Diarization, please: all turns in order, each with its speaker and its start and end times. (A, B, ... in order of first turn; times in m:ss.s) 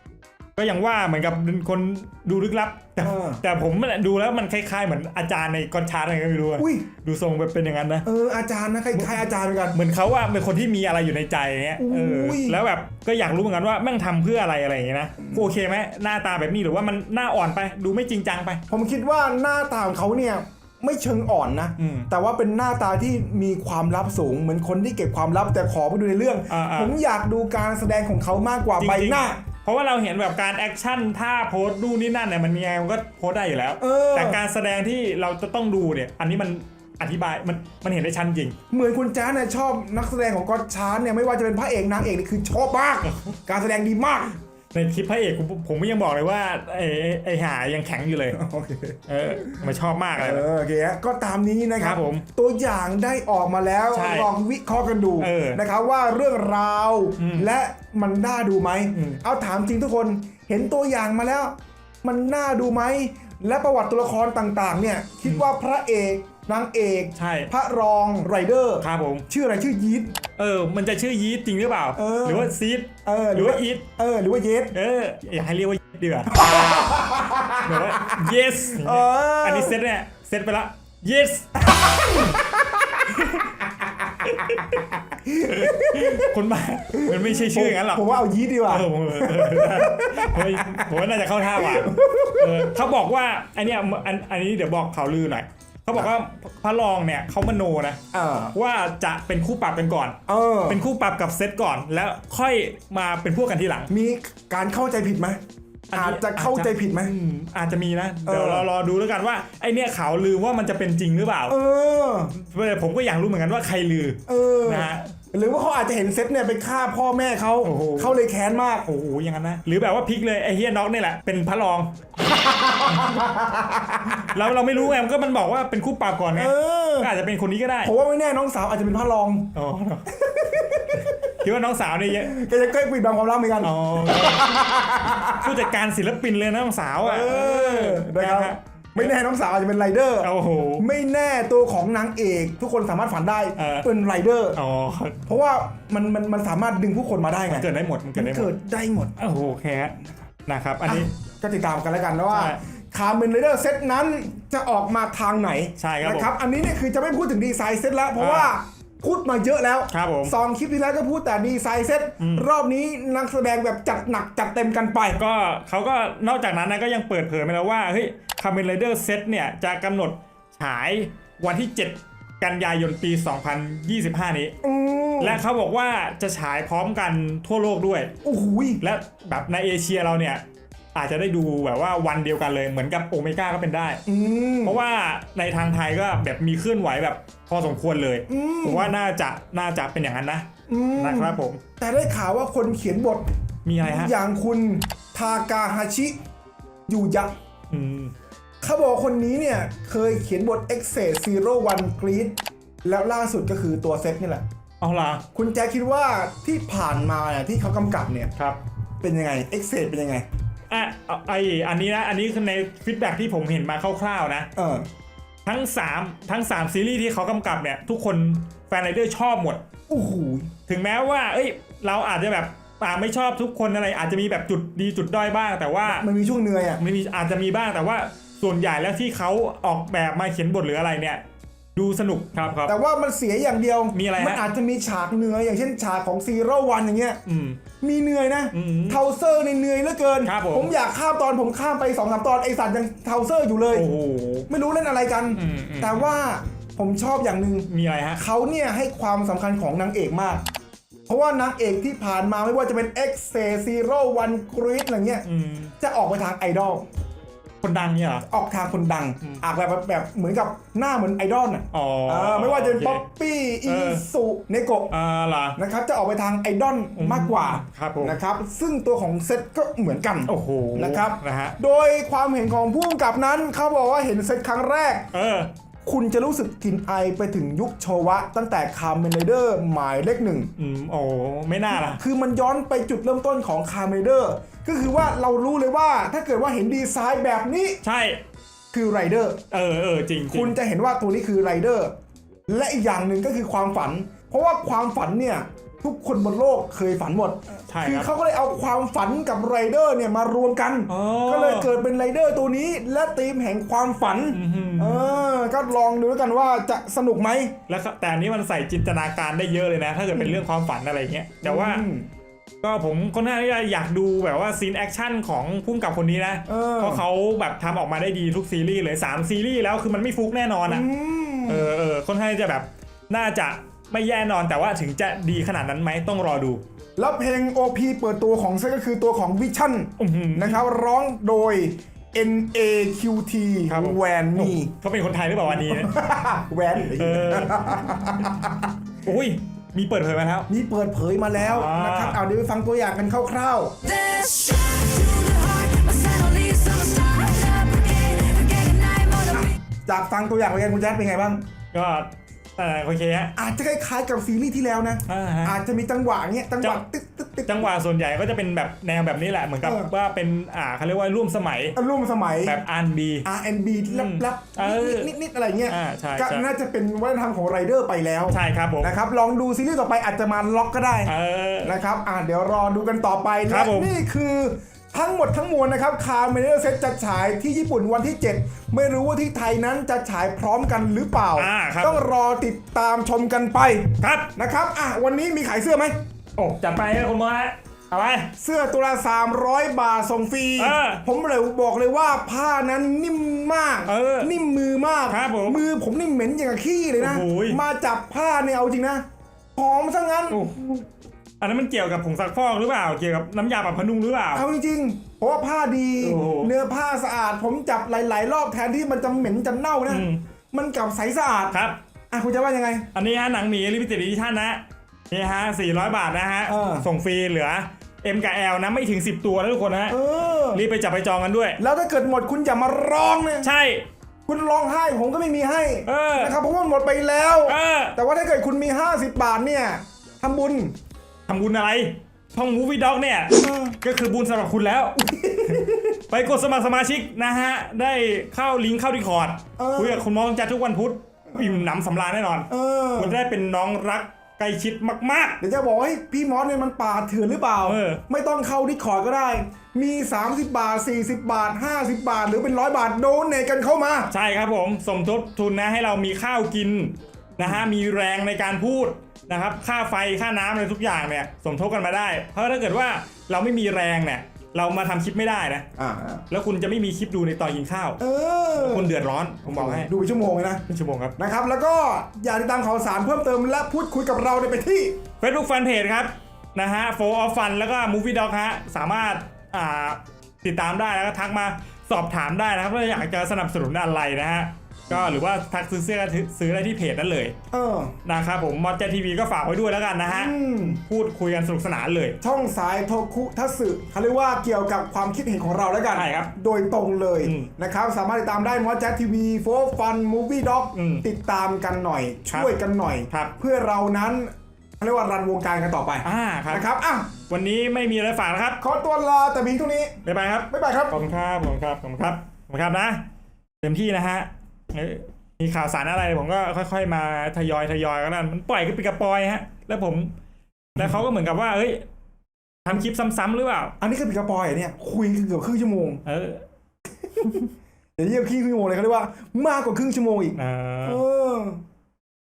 0:00.6-0:08.0 A
0:03.0-0:03.4 B
0:06.6-0:06.9 B
0:08.0-0:09.8 B
0:08.9-0:09.2 A
0:09.7-0:18.6 A
0:11.8-0:12.6 B
0:18.7-0:29.4 B
0:21.8-0:22.1 A
0:26.5-0:26.9 A
0:28.8-0:38.6 A
0:33.8-0:34.4 B
0:38.7-0:44.4 B
0:44.7-0:48.4 A
0:48.3-0:49.6 B
0:49.1-0:50.4 A
0:50.2-1:10.1 B
0:51.8-0:52.2 A
0:53.9-0:54.3 A
0:55.2-0:55.6 A
0:57.2-0:57.5 A
0:58.9-0:59.2 A
1:07.2-1:07.5 A
1:08.8-1:09.2 A
1:10.4-1:13.8 A
1:11.9-1:12.5 B
1:13.0-1:14.8 B
1:14.7-1:16.3 A
1:16.3-1:19.8 B
1:17.6-1:21.5 A
1:21.6-1:23.1 B
1:23.1-1:23.5 A
1:24.2-1:26.3 B
1:24.2-1:24.6 A
1:25.5-1:28.0 A
1:26.9-1:30.9 B
1:28.7-1:38.0 A
1:31.5-1:32.8 B
1:38.1-1:38.5 B
1:38.5-1:43.9 A
1:40.3-1:40.8 B
1:43.9-1:45.4 B
1:45.9-1:51.5 A
1:45.9-1:47.1 B
1:48.2-1:48.7 B
1:51.5-1:52.4 B
1:52.4-1:55.1 A
1:54.3-1:58.8 B
1:57.6-1:58.2 A
1:58.8-2:02.0 A
2:02.2-2:04.4 B
2:02.9-2:03.2 A
2:04.3-2:07.9 A
2:06.3-2:07.1 B
2:07.8-2:09.5 B
2:09.5-2:10.0 A
2:10.1-2:11.2 B
2:11.3-2:12.4 A
2:12.2-2:15.6 B
2:13.6-2:14.5 A
2:15.4-2:19.1 A
2:17.0-2:24.6 B
2:20.2-2:20.8 A
2:23.6-2:23.9 A
2:24.5-2:25.2 A
2:25.2-2:29.2 B
2:27.5-2:28.5 A
2:29.2-2:31.1 A
2:30.8-2:45.2 B
2:32.3-2:32.6 A
2:35.8-2:36.3 A
2:38.2-2:38.5 A
2:39.9-2:40.3 A
2:42.2-2:42.5 A
2:45.1-2:54.5 A
2:54.6-2:55.4 B
2:55.2-2:58.1 A
2:58.2-2:58.8 B
2:58.8-3:04.0 A
3:04.0-3:04.8 B
3:04.6-3:11.6 A
3:08.3-3:08.9 B
3:10.7-3:13.3 B
3:13.6-3:14.1 A
3:13.8-3:16.2 B
3:16.9-3:17.3 B
3:17.7-3:18.1 A
3:18.6-3:24.4 B
3:24.8-3:25.2 A
3:25.3-3:28.3 B
3:29.0-3:30.2 B
3:30.7-3:34.5 A
3:34.6-3:34.8 B
3:35.4-3:39.6 A
3:39.9-3:40.5 B
3:40.7-3:46.1 A
3:45.8-3:46.8 B
3:46.8-3:51.2 A
3:51.7-3:52.7 A
3:52.6-3:57.2 B
3:53.9-3:54.4 A
3:57.2-3:57.6 A
3:57.8-4:03.9 B
3:58.5-3:59.0 A
4:00.2-4:00.7 A
4:03.7-4:04.5 A
4:04.5-4:10.4 B
4:05.3-4:06.0 A
4:07.7-4:08.2 A
4:11.1-4:15.2 B
4:15.2-4:15.7 A
4:15.8-4:16.9 B
4:17.6-4:18.2 A
4:18.3-4:25.0 B
4:21.7-4:23.0 A
4:23.6-4:24.0 A
4:24.9-4:25.6 A
4:25.6-4:35.1 B
4:27.0-4:28.2 A
4:30.3-4:31.6 A
4:35.1-4:35.5 A
4:35.8-4:40.5 B
4:40.6-4:42.0 A
4:41.8-4:47.8 B
4:47.8-4:48.2 A
4:48.7-4:49.4 B
4:49.5-4:50.6 A
4:50.3-4:51.9 B
4:52.5-5:07.5 B
4:57.7-4:58.1 A
5:00.9-5:01.7 A
5:04.3-5:05.1 A
5:07.7-5:11.8 A
5:11.4-5:12.1 B
5:12.6-5:20.9 A
5:16.5-5:17.0 B
5:20.7-5:21.7 B
5:21.5-5:26.6 A
5:27.0-5:34.7 B
5:30.0-5:30.6 A
5:33.7-5:35.9 A
5:35.5-5:38.7 B
5:36.9-5:38.0 A
5:39.0-5:40.5 A
5:40.5-5:43.8 B
5:41.4-5:42.2 A
5:43.8-5:49.6 C
5:49.3-5:51.4 B
5:51.7-5:53.3 A
5:53.4-5:57.7 B
5:55.1-5:55.6 A
5:57.4-6:01.7 A
5:59.6-5:59.9 B
6:01.8-6:02.6 B
6:02.4-6:03.2 A
6:03.2-6:26.0 B
6:03.9-6:05.1 A
6:05.7-6:06.5 A
6:08.3-6:08.9 A
6:11.1-6:11.7 A
6:13.5-6:13.9 A
6:21.4-6:22.0 A
6:24.0-6:24.3 A
6:26.4-6:28.3 A
6:28.4-6:39.0 B
6:30.6-6:31.0 A
6:33.9-6:34.3 A
6:35.1-6:35.6 A
6:37.0-6:37.6 A
6:39.6-6:40.4 B
6:40.3-6:40.8 A
6:41.4-6:44.4 A
6:44.3-6:51.6 B
6:46.0-6:46.5 A
6:49.9-6:50.2 A
6:51.5-6:51.8 A
6:52.1-6:52.9 B
6:52.9-7:00.0 A
6:56.5-6:56.9 B
6:59.9-7:00.6 B
7:00.5-7:01.6 A
7:01.6-7:03.5 B
7:03.4-7:03.8 A
7:04.3-7:10.7 B
7:05.8-7:06.4 A
7:07.4-7:07.9 A
7:11.3-7:25.4 A
7:13.4-7:13.8 B
7:15.0-7:15.9 B
7:19.6-7:20.0 B
7:22.5-7:23.2 B
7:25.4-7:34.1 B
7:27.6-7:28.0 A
7:34.1-7:45.6 A
7:45.8-7:46.2 B
7:46.3-7:48.0 A
7:48.0-7:50.6 B
7:48.5-7:49.9 A
7:50.7-7:51.2 A
7:51.2-7:55.0 B
7:55.2-8:07.3 A
8:07.5-8:07.9 B
8:08.0-8:12.2 A
8:10.1-8:10.8 B
8:12.2-8:27.1 B
8:15.9-8:16.3 A
8:17.2-8:17.5 A
8:20.7-8:21.0 A
8:23.1-8:23.3 A
8:26.0-8:28.6 A
8:28.6-8:30.0 B
8:30.0-8:33.0 A
8:30.5-8:31.0 B
8:33.6-8:40.1 A
8:40.8-8:41.8 A
8:42.6-8:43.7 A
8:43.8-8:46.0 B
8:46.0-8:46.4 A
8:48.0-8:51.6 B
8:50.4-8:51.0 A